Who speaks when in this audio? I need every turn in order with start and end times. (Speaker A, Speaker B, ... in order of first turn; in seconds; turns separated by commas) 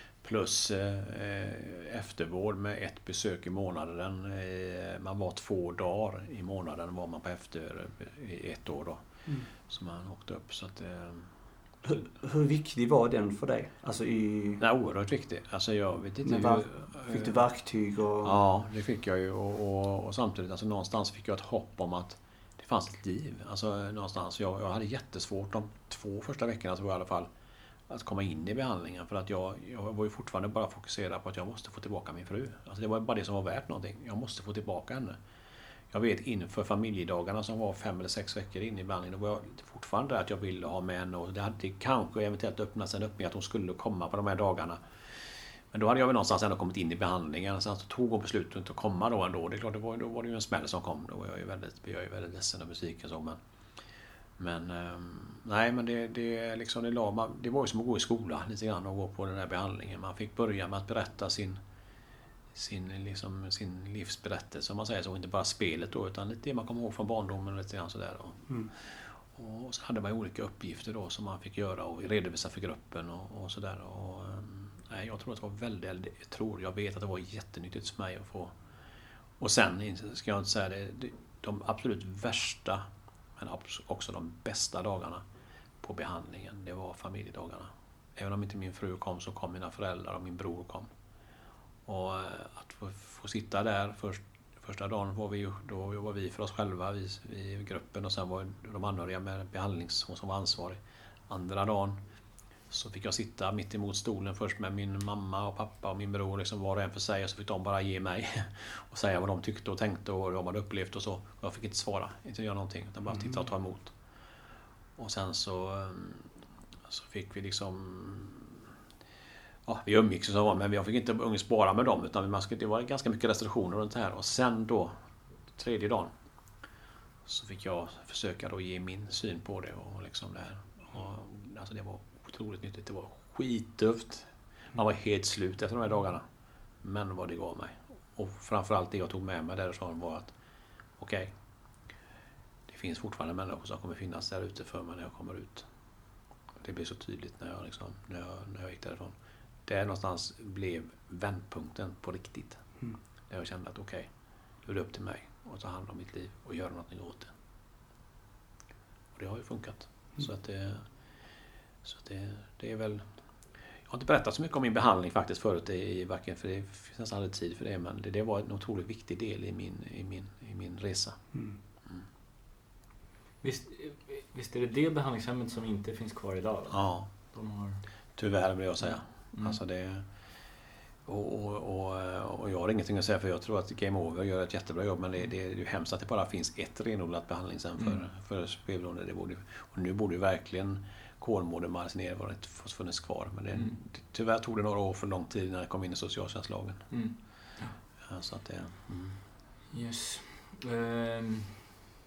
Speaker A: 0.2-9.0, Speaker A: 9.7-11.3, Speaker B: 11.8-14.6, Speaker A: 14.6-17.4, Speaker B: 16.2-18.4, Speaker A: 18.2-27.3, Speaker A: 27.9-35.2, Speaker A: 35.9-44.8, Speaker A: 45.7-53.4, Speaker A: 54.4-61.6, Speaker A: 62.5-78.5, Speaker A: 79.4-82.8, Speaker A: 83.4-85.2, Speaker A: 85.8-90.9, Speaker A: 91.8-102.0, Speaker A: 102.7-113.9, Speaker A: 115.0-116.3, Speaker A: 116.9-118.7, Speaker A: 119.7-124.9, Speaker A: 125.5-126.1, Speaker A: 127.2-136.2, Speaker A: 136.8-140.3, Speaker A: 141.0-141.3, Speaker A: 142.7-145.7, Speaker A: 146.6-149.1, Speaker A: 149.7-152.6, Speaker A: 153.3-154.1, Speaker A: 154.6-157.3, Speaker A: 159.1-160.8, Speaker A: 161.8-163.0, Speaker A: 163.9-171.2, Speaker C: 173.4-177.8, Speaker A: 176.7-177.1, Speaker A: 178.2-180.0, Speaker A: 181.1-196.8, Speaker C: 196.9-197.8, Speaker A: 198.1-199.2, Speaker C: 199.7-201.6